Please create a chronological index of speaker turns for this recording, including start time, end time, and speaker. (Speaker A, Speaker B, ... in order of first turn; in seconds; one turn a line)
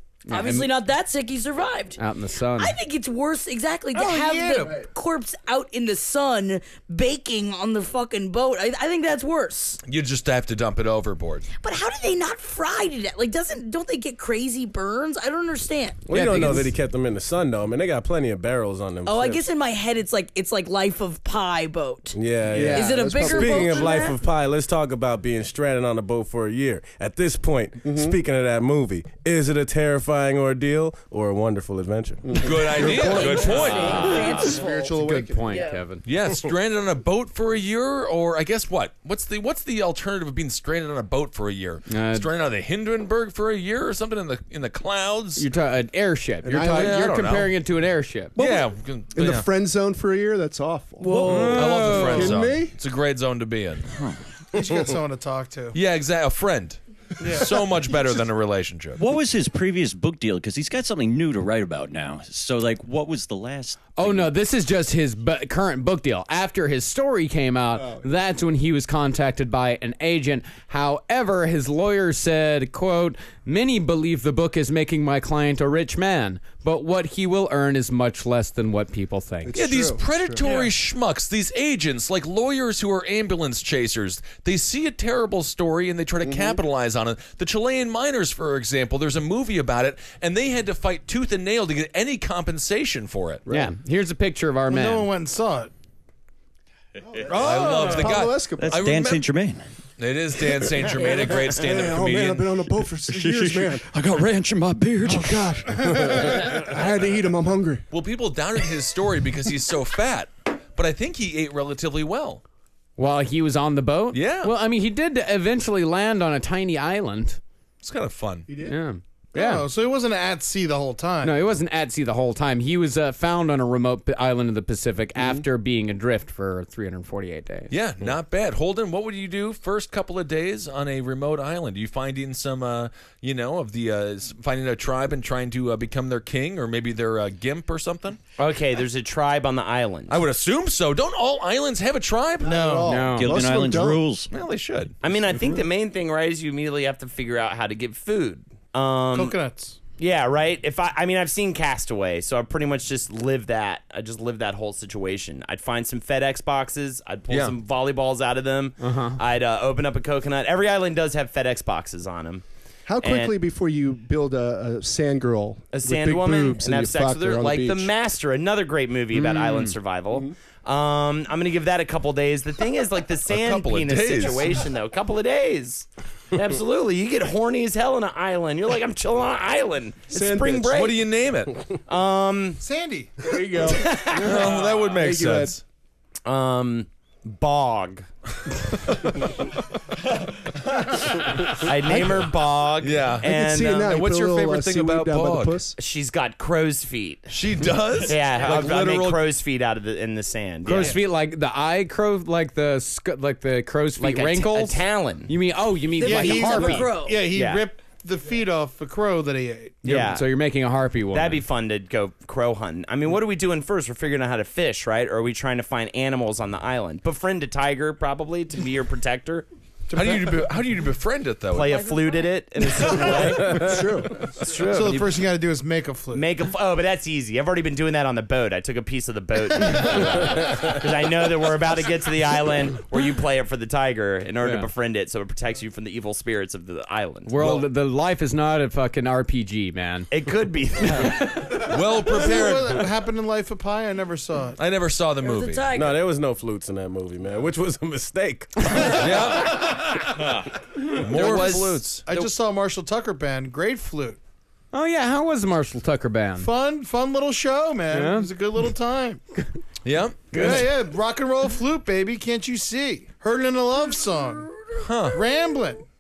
Speaker A: 0.3-0.7
Speaker B: 0.3-2.0
Speaker A: 2.0-2.8
Speaker B: 2.6-9.8
Speaker C: 3.9-4.8
Speaker D: 9.8-11.5
Speaker B: 11.6-16.2
Speaker E: 16.1-19.4
Speaker A: 16.1-16.7
Speaker B: 19.1-24.2
Speaker E: 22.1-32.5
Speaker F: 22.5-24.1
Speaker F: 27.9-28.2
Speaker F: 32.2-35.6
Speaker D: 32.4-34.2
Speaker B: 33.0-35.8
Speaker A: 33.5-36.0
Speaker D: 36.0-45.4
Speaker A: 41.9-42.3
Speaker A: 45.4-48.3
Speaker F: 46.5-47.1
Speaker D: 46.7-47.5
Speaker D: 48.4-49.5
Speaker F: 48.4-52.7
Speaker A: 51.1-52.3
Speaker D: 51.2-53.9
Speaker G: 53.9-54.2
Speaker C: 54.5-55.8
Speaker D: 55.7-59.0
Speaker C: 57.2-57.6
Speaker G: 59.0-64.3
Speaker A: 64.0-79.6
Speaker F: 79.5-80.4
Speaker D: 79.6-93.4
Speaker C: 80.4-80.7
Speaker F: 86.2-86.6
Speaker F: 93.5-93.7
Speaker A: 93.5-95.1
Speaker C: 94.7-95.7
Speaker F: 97.1-98.9
Speaker C: 97.3-98.2
Speaker D: 97.3-99.3
Speaker G: 98.6-99.6
Speaker D: 100.0-102.5
Speaker F: 101.4-103.8
Speaker G: 103.1-105.7
Speaker F: 105.1-107.9
Speaker D: 107.9-112.4
Speaker A: 113.0-117.4
Speaker D: 114.1-114.5
Speaker D: 117.8-118.5
Speaker F: 118.5-118.8
Speaker A: 118.7-119.7
Speaker C: 119.3-121.4
Speaker A: 121.2-127.7
Speaker D: 127.7-138.2
Speaker H: 138.4-140.2
Speaker D: 140.1-142.6
Speaker F: 142.4-144.1
Speaker C: 142.4-143.0
Speaker A: 142.9-143.4
Speaker G: 143.1-144.3
Speaker D: 144.3-145.0
Speaker H: 145.0-149.4
Speaker C: 149.1-149.8
Speaker H: 150.0-162.4
Speaker D: 157.3-157.6
Speaker A: 158.8-159.2
Speaker F: 162.9-167.9
Speaker H: 163.0-163.4
Speaker H: 165.7-181.0
Speaker A: 169.1-169.8
Speaker D: 173.3-174.6
Speaker F: 180.1-180.8
Speaker D: 180.7-181.6
Speaker H: 181.9-182.6
Speaker C: 182.6-183.3
Speaker F: 183.2-185.6
Speaker H: 183.7-184.5
Speaker D: 184.1-185.6
Speaker H: 186.2-188.1
Speaker H: 191.5-193.9
Speaker F: 191.8-192.3
Speaker D: 192.8-195.6
Speaker F: 193.2-195.8
Speaker H: 195.8-197.3
Speaker D: 197.3-199.2
Speaker H: 198.0-201.0
Speaker A: 200.7-206.9
Speaker C: 200.7-201.0
Speaker H: 204.0-205.3
Speaker B: 206.0-207.3
Speaker C: 206.0-209.8
Speaker H: 207.3-207.7
Speaker H: 209.8-210.3
Speaker A: 209.8-211.4
Speaker H: 211.1-219.5
Speaker D: 219.9-221.8
Speaker C: 219.9-220.2
Speaker H: 221.5-223.9
Speaker F: 223.5-224.2
Speaker D: 224.5-224.9
Speaker C: 224.5-226.3
Speaker H: 226.1-237.3
Speaker A: 237.3-240.1
Speaker D: 237.4-237.7
Speaker H: 240.1-241.3
Speaker D: 241.4-242.9
Speaker C: 241.5-244.6
Speaker D: 244.6-245.7
Speaker B: 245.2-246.1
Speaker E: 245.7-249.1
Speaker D: 248.8-250.0
Speaker G: 250.1-250.6
Speaker D: 250.9-252.1
Speaker A: 251.2-251.6
Speaker G: 251.2-251.5
Speaker C: 251.3-254.2
Speaker A: 254.7-256.5
Speaker C: 256.4-259.2
Speaker A: 257.9-258.3
Speaker D: 259.9-260.6
Speaker C: 260.3-264.6
Speaker D: 264.8-265.2
Speaker C: 265.1-265.9